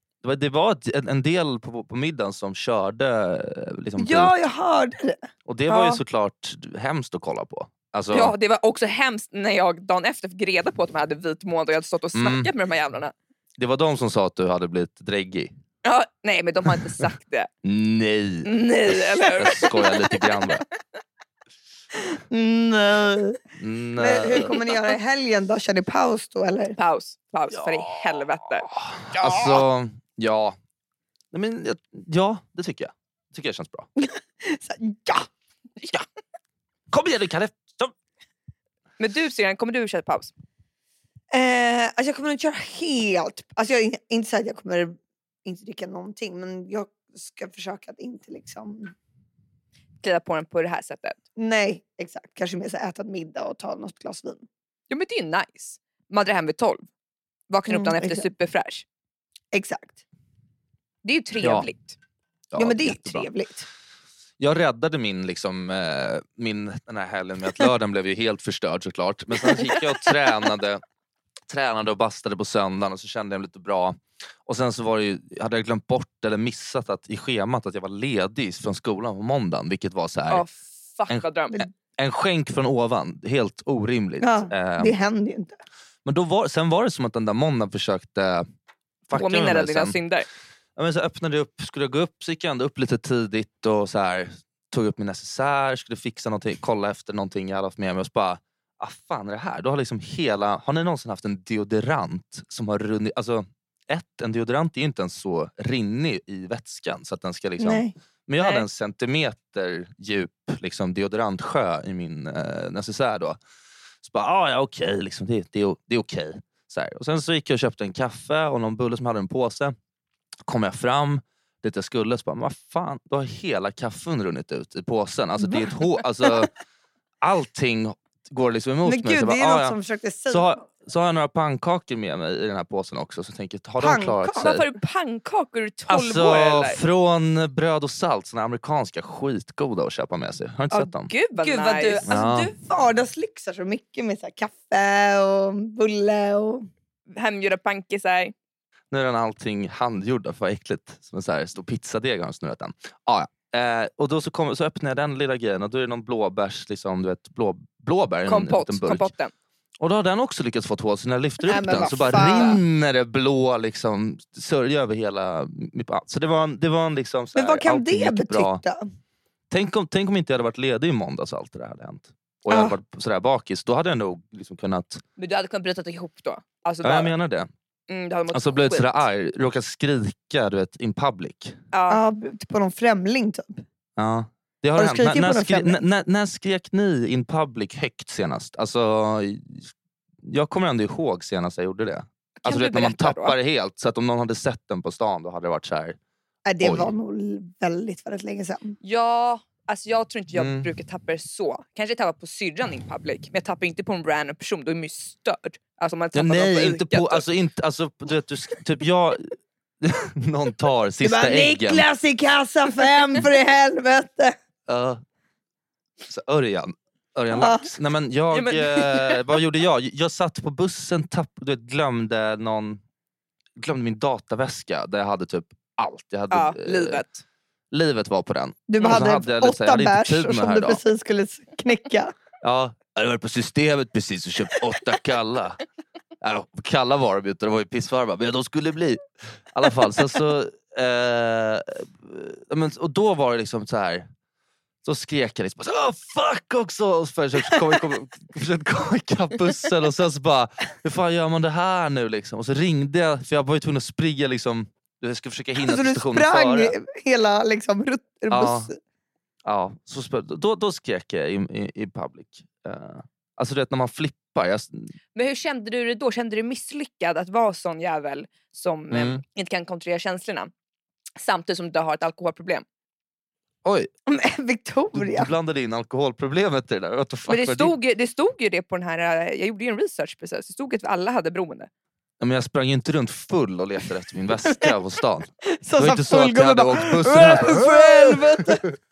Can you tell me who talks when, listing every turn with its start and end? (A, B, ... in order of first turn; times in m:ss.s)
0:00.2-0:04.3 A
0:04.0-0:05.2 B
0:05.4-0:08.3 A
0:05.7-0:06.0 C
0:08.1-0:13.1 C
0:12.1-0:12.5 A
0:13.6-0:15.5 A
0:15.8-0:17.5 C
0:17.6-0:20.6 A
0:18.4-0:20.4 C
0:22.1-0:23.4 B
0:23.6-0:24.6 A
0:24.0-0:26.8 B
0:26.8-0:28.7 C
0:27.6-0:28.0 A
0:28.7-0:30.6 A
0:31.3-0:33.9 A
0:34.0-0:35.3 B
0:36.9-0:37.9 A
0:39.0-0:40.3 C
0:41.3-0:48.9 B
0:50.0-0:51.2 C
0:51.4-0:54.4 B
0:54.9-0:56.8 C
0:57.5-0:58.8 C
0:57.7-0:58.3 B
0:59.5-1:00.0 B
1:01.0-1:02.0 C
1:01.4-1:01.7 A
1:02.5-1:03.3 A
1:02.6-1:03.6 B
1:04.4-1:10.8 A
1:09.4-1:09.8 B
1:11.5-1:20.4 A
1:20.3-1:21.6 C
1:21.1-1:25.0 A
1:24.2-1:25.6 B
1:26.0-1:28.5 A
1:29.1-1:30.0 A
1:29.1-1:30.3 C
1:30.8-1:53.4 A
1:47.6-1:47.9 B
1:48.4-1:48.6 C
1:54.0-1:59.7 A
2:00.4-2:06.5 A
2:07.2-2:09.8 A
2:08.8-2:10.6 B
2:10.3-2:14.6 A
2:13.8-2:14.5 B
2:14.4-2:16.8 C
2:15.9-2:21.1 A
2:20.7-2:22.1 C
2:21.4-2:26.7 B
2:22.0-2:22.5 A
2:27.1-2:28.3 C
2:28.9-2:39.1 A
2:38.3-2:39.3 C
2:39.8-2:48.6 A
2:41.5-2:42.6 B
2:47.3-2:48.8 B
2:49.5-2:55.0 A
2:52.5-2:52.8 B
2:55.2-2:57.1 C
2:56.8-2:57.5 A
2:57.9-2:59.0 C
2:58.3-3:01.6 A
3:01.7-3:02.0 C
3:01.9-3:03.6 B
3:04.0-3:09.7 A
3:04.8-3:05.8 B
3:10.2-3:16.0 A
3:12.4-3:13.4 C
3:16.4-3:18.8 B
3:16.6-3:16.9 A
3:18.8-3:27.3 C
3:20.3-3:20.6 A
3:26.1-3:31.8 A
3:31.0-3:34.3 B
3:34.7-3:35.0 A
3:36.1-3:42.8 A
3:37.3-3:37.7 B
3:38.3-3:39.2 C
3:43.6-3:47.0 A
3:46.3-3:47.2 C
3:47.7-3:50.8 A
3:48.7-3:52.1 B
3:52.4-3:55.6 A
3:56.2-4:04.1 A
4:04.8-4:16.7 A
4:07.5-4:07.8 B
4:15.6-4:18.8 B
4:18.3-4:18.7 A
4:19.4-4:24.9 A
4:25.1-4:30.5 C
4:28.9-4:29.2 A
4:31.2-4:32.6 C
4:33.6-4:33.9 A
4:34.1-4:35.3 B
4:34.9-4:37.7 A
4:37.3-4:41.7 C
4:42.2-4:48.6 A
4:45.4-4:48.6 B